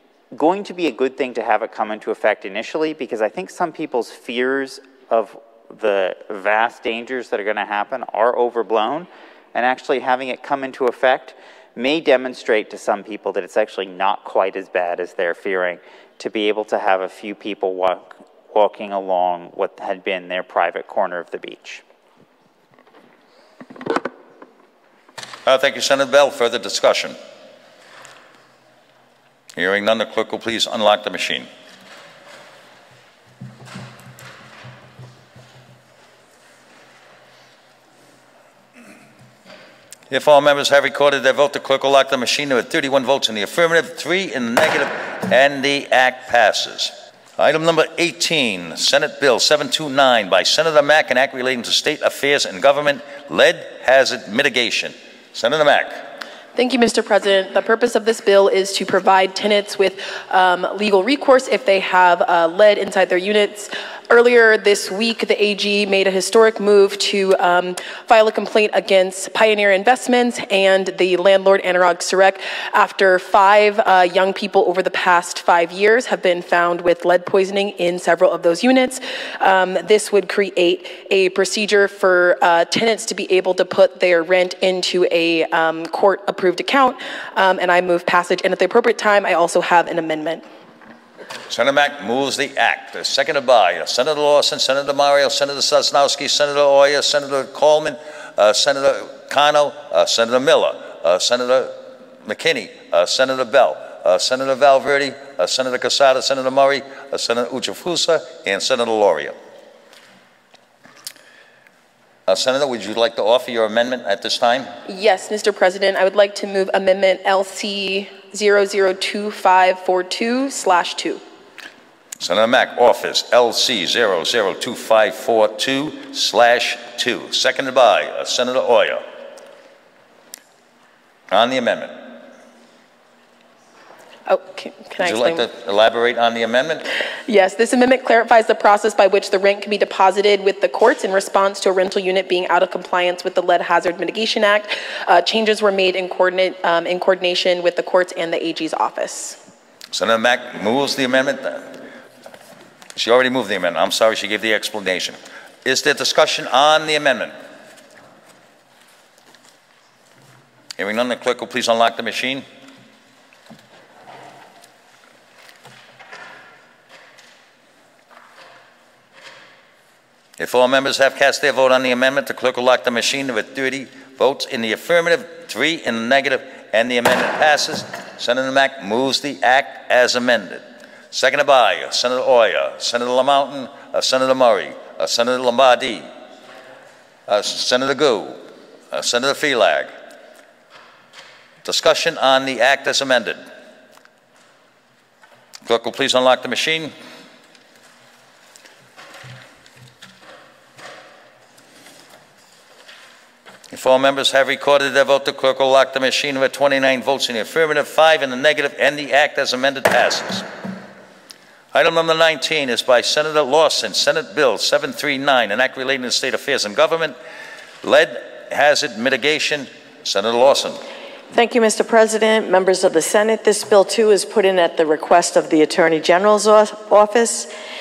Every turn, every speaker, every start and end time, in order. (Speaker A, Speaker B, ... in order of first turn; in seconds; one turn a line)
Speaker A: 0.3-21.8
Speaker B: 25.4-27.1
Speaker B: 29.6-31.5
Speaker B: 40.1-56.0
Speaker C: 56.5-90.4
Speaker B: 91.5-109.3
Speaker B: 112.3-114.7
Speaker C: 114.8-121.2
Speaker B: 122.2-129.0
Speaker B: 131.3-131.9
Speaker C: 134.3-135.4
Speaker B: 135.0-136.9
Speaker C: 137.3-149.4
Speaker B: 149.9-151.7
Speaker B: 152.9-157.3
Speaker B: 160.8-162.4
Speaker B: 170.4-186.0
Speaker B: 187.3-188.4
Speaker B: 188.9-189.9
Speaker B: 191.6-193.4
Speaker B: 195.7-196.9
Speaker B: 203.7-210.4
Speaker B: 211.7-217.1
Speaker B: 217.8-220.8
Speaker D: 221.3-227.5